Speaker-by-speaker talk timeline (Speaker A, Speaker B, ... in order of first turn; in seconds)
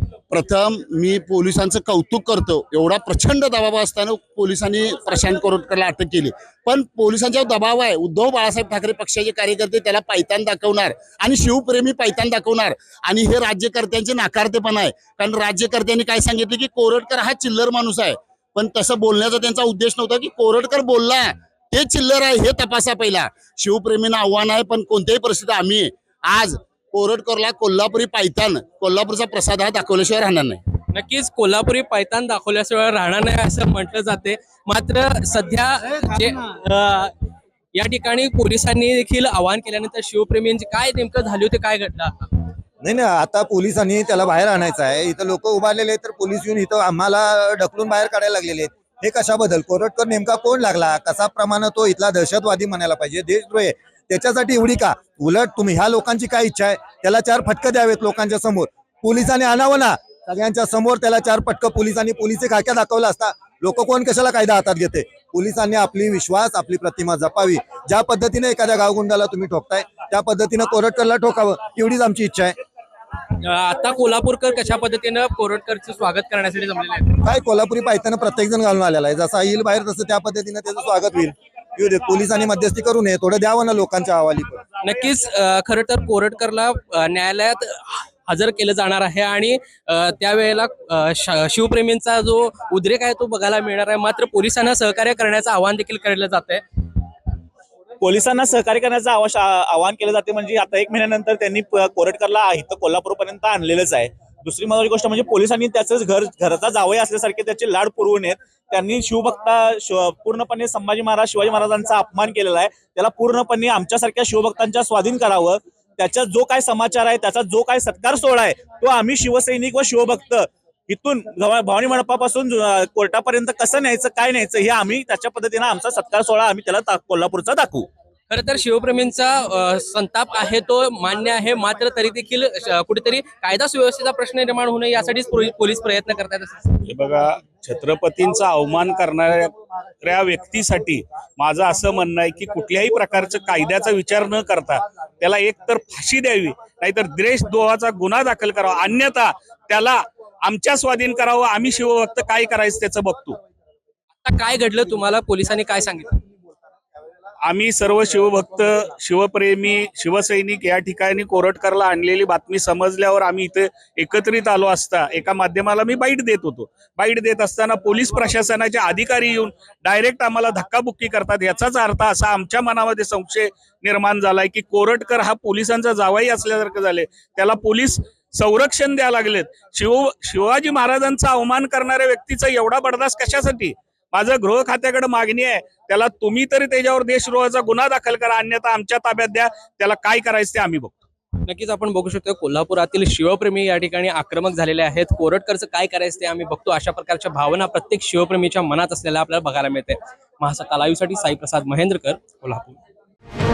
Speaker A: 0.3-30.6
Speaker B: 30.9-37.1, 37.7-42.4, 73.4-77.2, 84.8-96.6, 128.3-136.7, 154.2-156.1, 191.4-202.8
Speaker C: 42.8-72.5, 77.2-84.6
Speaker D: 98.0-127.9
Speaker E: 136.8-153.4, 157.4-191.0